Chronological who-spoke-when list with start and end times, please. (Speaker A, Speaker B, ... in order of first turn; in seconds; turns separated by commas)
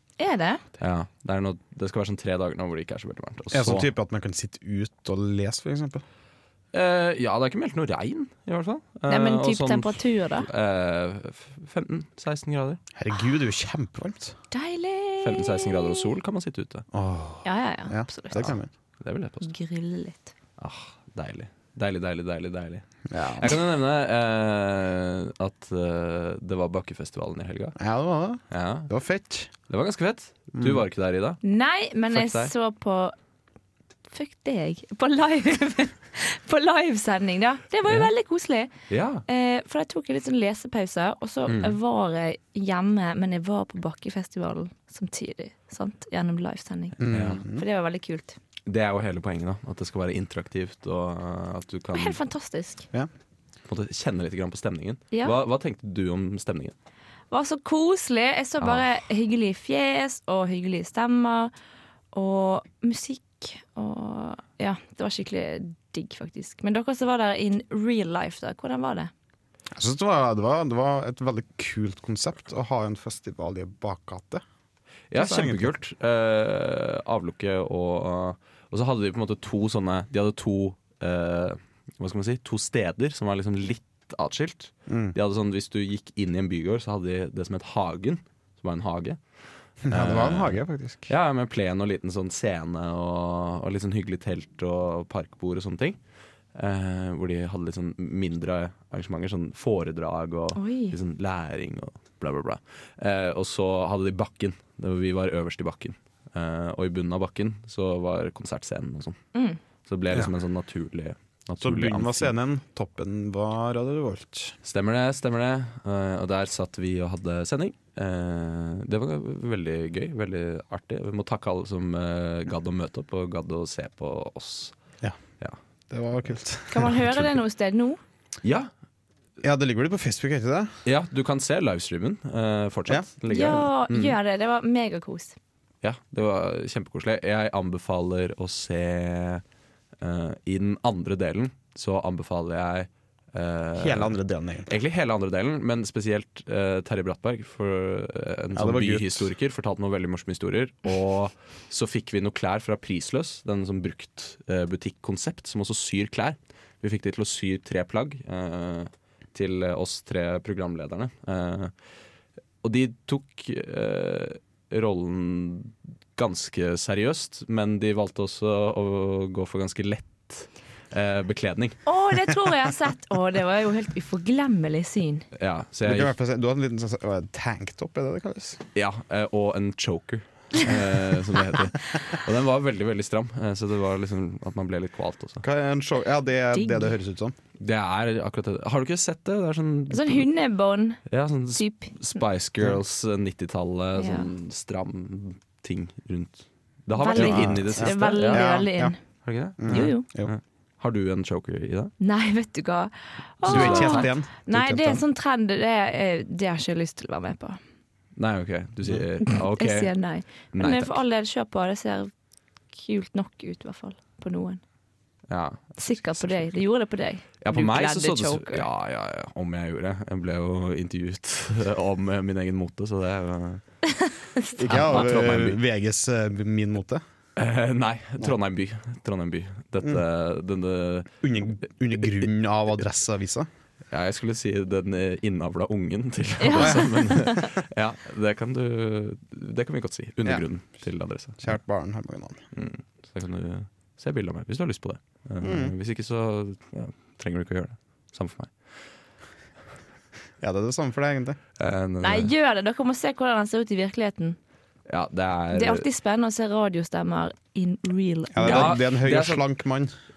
Speaker A: 0.2-0.6, Speaker B: 0.8-3.9, Speaker C: 3.5-6.0, Speaker B: 6.7-12.8, Speaker A: 9.1-10.5, Speaker C: 12.9-14.4, Speaker A: 14.5-16.1, Speaker B: 15.2-16.9, Speaker C: 16.9-18.7, Speaker A: 17.4-18.4, Speaker B: 18.4-19.5, Speaker A: 19.4-20.3, Speaker B: 20.6-22.8, Speaker C: 23.1-23.5, Speaker B: 23.4-27.8, Speaker C: 27.8-29.5, Speaker B: 28.5-28.9, Speaker B: 29.7-31.4, Speaker C: 30.5-30.8, Speaker A: 31.4-33.1, Speaker B: 32.1-32.5, Speaker A: 34.1-38.7, Speaker B: 38.9-39.2, Speaker A: 39.3-48.4, Speaker B: 41.5-41.8, Speaker C: 47.0-47.6, Speaker B: 47.0-47.4, Speaker B: 48.7-52.2, Speaker A: 51.9-52.9, Speaker B: 53.7-56.7, Speaker A: 57.3-61.5, Speaker B: 58.6-58.9, Speaker A: 62.1-69.1, Speaker C: 69.7-74.4, Speaker B: 75.1-89.2, Speaker C: 75.1-75.7, Speaker C: 84.9-85.1, Speaker B: 89.8-96.0, Speaker C: 89.8-91.1, Speaker B: 96.5-109.2, Speaker A: 100.5-101.0, Speaker A: 109.3-109.6, Speaker B: 109.8-112.3, Speaker C: 111.6-114.5, Speaker B: 114.6-124.7, Speaker C: 125.9-127.3, Speaker A: 126.7-128.0, Speaker B: 128.4-128.7, Speaker C: 129.4-130.7, Speaker B: 130.8-134.2, Speaker A: 133.3-135.3, Speaker B: 135.8-139.4, Speaker B: 140.0-144.1, Speaker C: 143.8-144.7, Speaker B: 144.7-161.7, Speaker C: 148.5-149.3, Speaker B: 162.6-171.8, Speaker A: 171.8-175.2, Speaker B: 175.3-176.1, Speaker C: 175.8-178.6, Speaker B: 178.7-185.4, Speaker C: 185.4-187.4, Speaker A: 186.5-186.9, Speaker B: 187.6-190.3, Speaker A: 189.9-191.0, Speaker B: 191.1-198.4, Speaker A: 191.6-191.9, Speaker A: 193.9-194.3, Speaker A: 196.9-199.0, Speaker C: 197.0-198.9, Speaker B: 199.2-201.9, Speaker C: 199.6-200.3, Speaker A: 199.7-200.1, Speaker A: 202.0-207.6, Speaker C: 203.4-205.0, Speaker B: 203.4-204.0, Speaker B: 208.2-211.0, Speaker A: 209.3-212.1, Speaker A: 212.7-214.6, Speaker B: 215.3-216.2, Speaker A: 215.8-218.7, Speaker B: 217.4-223.6, Speaker C: 224.6-227.0, Speaker B: 224.6-225.6, Speaker B: 227.3-231.1, Speaker C: 231.2-233.5, Speaker B: 233.9-241.6, Speaker A: 236.4-237.5, Speaker C: 236.6-237.3, Speaker C: 241.4-242.4, Speaker B: 242.5-248.7, Speaker C: 245.4-245.7, Speaker C: 250.4-251.4, Speaker B: 251.6-252.3, Speaker A: 252.0-254.4, Speaker B: 254.9-255.9, Speaker A: 255.5-258.8, Speaker C: 258.3-259.9, Speaker B: 258.4-259.4